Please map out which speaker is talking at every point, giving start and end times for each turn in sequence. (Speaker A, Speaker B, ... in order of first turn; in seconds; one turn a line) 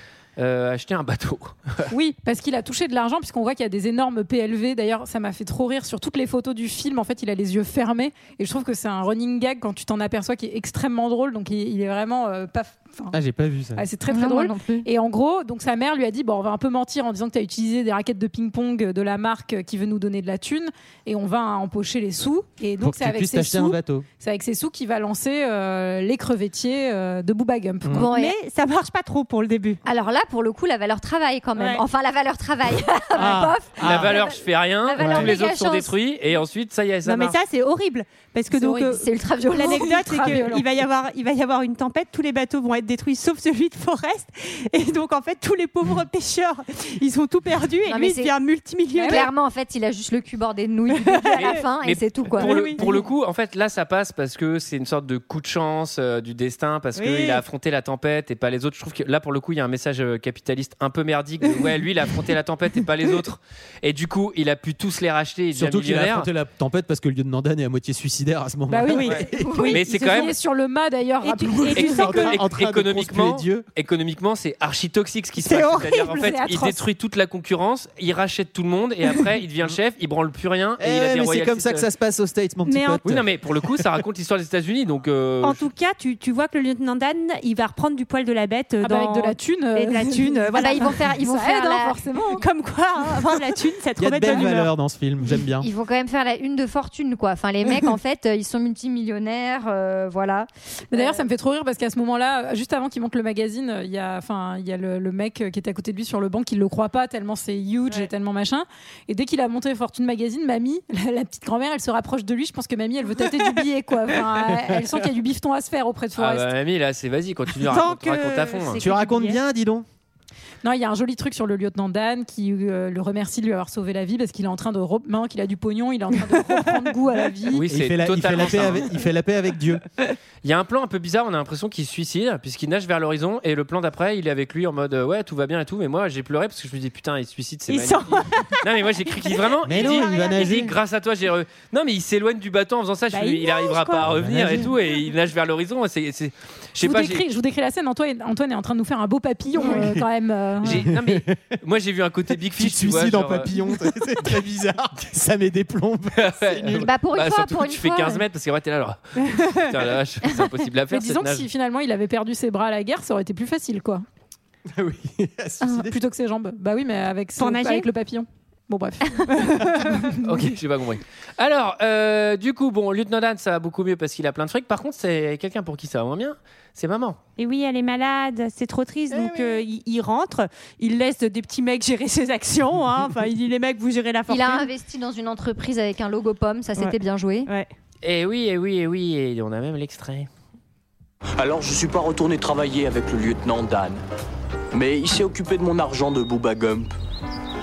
Speaker A: 0.4-1.9
Speaker B: 1.9-13.2
Speaker C: 13.1-13.8
Speaker B: 13.8-28.0
Speaker D: 14.1-14.9
Speaker C: 22.8-24.1
Speaker D: 27.9-28.3
Speaker E: 28.1-29.8
Speaker D: 29.9-35.9
Speaker E: 31.6-31.8
Speaker C: 33.1-34.2
Speaker A: 33.8-37.4
Speaker C: 35.0-35.3
Speaker E: 37.0-49.2
Speaker B: 38.5-38.9
Speaker D: 38.9-40.3
Speaker B: 39.6-40.6
Speaker D: 47.9-48.3
Speaker B: 48.9-49.3
Speaker D: 49.0-52.8
Speaker E: 50.9-51.5
Speaker A: 51.3-66.3
Speaker E: 52.4-52.9
Speaker E: 57.0-57.4
Speaker C: 65.5-69.6
Speaker B: 68.7-72.4
Speaker E: 68.8-70.3
Speaker A: 69.0-70.3
Speaker D: 69.4-69.7
Speaker E: 71.2-72.0
Speaker A: 71.7-81.9
Speaker C: 71.7-73.7
Speaker E: 75.4-76.3
Speaker B: 76.1-76.8
Speaker C: 80.8-83.3
Speaker E: 82.7-83.0
Speaker A: 83.0-85.6
Speaker E: 85.4-91.0
Speaker B: 88.8-92.5
Speaker D: 90.5-92.0
Speaker E: 92.4-94.7
Speaker C: 94.0-95.7
Speaker D: 95.6-101.2
Speaker B: 100.9-116.5
Speaker A: 116.2-118.8
Speaker E: 117.6-119.4
Speaker C: 118.8-119.8
Speaker B: 120.6-127.6
Speaker E: 126.3-126.8
Speaker A: 127.5-128.9
Speaker C: 127.7-129.8
Speaker A: 130.4-147.2
Speaker E: 137.7-138.7
Speaker E: 139.3-140.7
Speaker C: 139.6-140.7
Speaker E: 143.1-144.7
Speaker C: 144.0-144.7
Speaker B: 146.8-150.8
Speaker C: 149.6-150.0
Speaker C: 150.6-151.5
Speaker A: 150.6-153.5
Speaker C: 152.6-156.9
Speaker A: 156.1-161.5
Speaker D: 156.7-158.2
Speaker B: 160.9-164.0
Speaker C: 164.7-165.9
Speaker B: 165.6-170.2
Speaker E: 167.4-167.9
Speaker A: 170.2-177.2
Speaker E: 177.4-184.7
Speaker D: 184.3-187.5
Speaker A: 188.0-190.3
Speaker F: 191.4-194.0
Speaker F: 194.7-196.9